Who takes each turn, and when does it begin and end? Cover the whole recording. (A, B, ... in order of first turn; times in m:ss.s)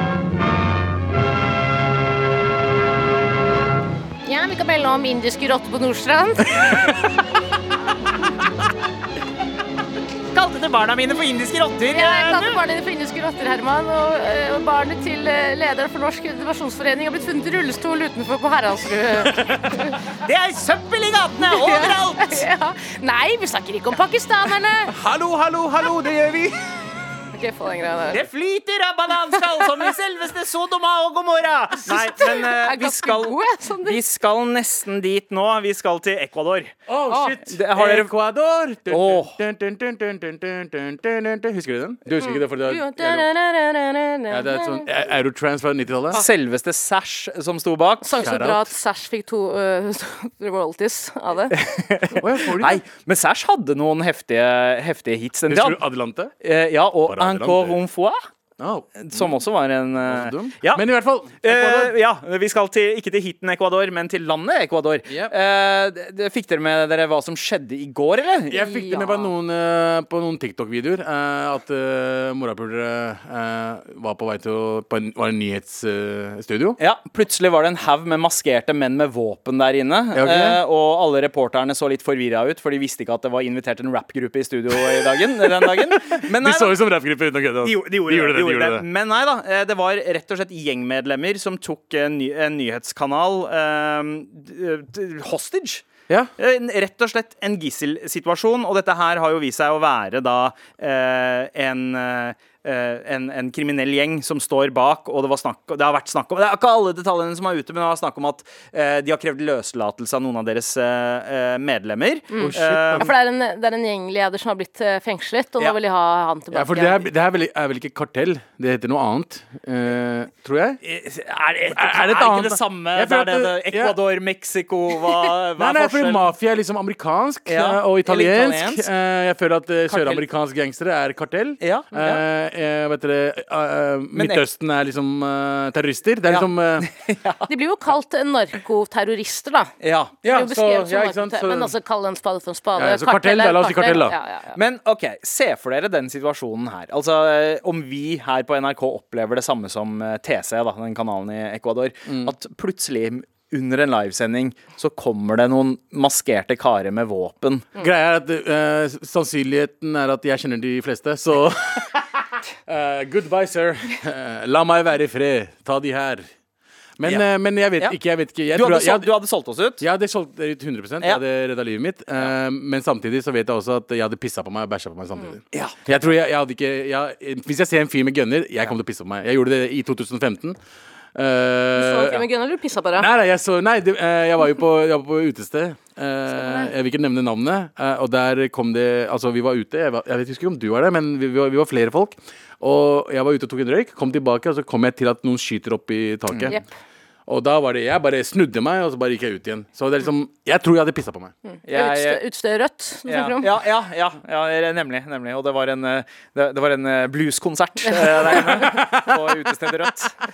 0:04.2-0:07.0 A
0:10.3-0:12.6 B
0:11.9-0:20.0 A
0:19.2-0:19.9 C
0:20.2-0:22.5 B
0:21.4-0:24.9 A
0:24.9-0:26.8 C
0:27.3-0:28.2 A
0:28.1-0:36.8 B
0:29.4-0:29.6 A
0:31.8-0:34.0 A
0:36.9-0:43.3 C
0:37.1-0:37.4 A
0:37.5-0:38.1 B
0:38.9-0:39.4 B
0:42.2-0:44.9 A
0:44.3-0:46.2 C
0:46.1-0:48.1 B
0:48.0-0:51.6 A
0:48.2-0:48.7 C
0:51.5-0:55.8 B
0:52.2-0:52.8 C
0:55.5-0:56.3 C
0:56.4-0:58.2 B
0:57.0-0:57.8 C
0:58.6-0:59.4 C
0:59.0-1:00.8 B
1:00.0-1:02.0 C
1:01.4-1:08.6 B
1:05.1-1:05.3 C
1:08.5-1:16.8 C
1:08.5-1:09.3 A
1:16.8-1:26.8 B
1:20.1-1:20.6 C
1:24.9-1:28.8 C
1:27.6-1:35.9 B
1:36.4-1:53.1 B
1:52.3-1:57.1 A
1:52.4-1:53.1 C
1:56.5-2:00.8 C
2:00.8-2:06.3 B
2:01.7-2:04.0 C
2:05.6-2:16.9 C
2:07.5-2:08.9 B
2:09.9-2:10.2 B
2:11.6-2:12.2 B
2:14.1-2:14.4 B
2:16.3-2:17.5 B
2:17.5-2:19.7 A
2:19.8-2:20.2 B
2:20.2-2:21.7 C
2:20.2-2:24.6 A
2:22.8-2:24.2 C
2:24.6-2:37.7 B
2:32.1-2:32.3 C
2:37.8-2:46.3 C
2:47.0-2:49.1 C
2:48.5-2:49.8 B
2:49.8-3:00.6 C
3:01.2-3:02.2 C
3:01.8-3:03.1 A
3:03.0-3:16.6 C
3:06.3-3:06.7 A
3:17.3-3:21.3 C
3:21.5-3:23.5 A
3:21.7-3:22.2 B
3:23.1-3:30.2 B
3:28.3-3:29.4 C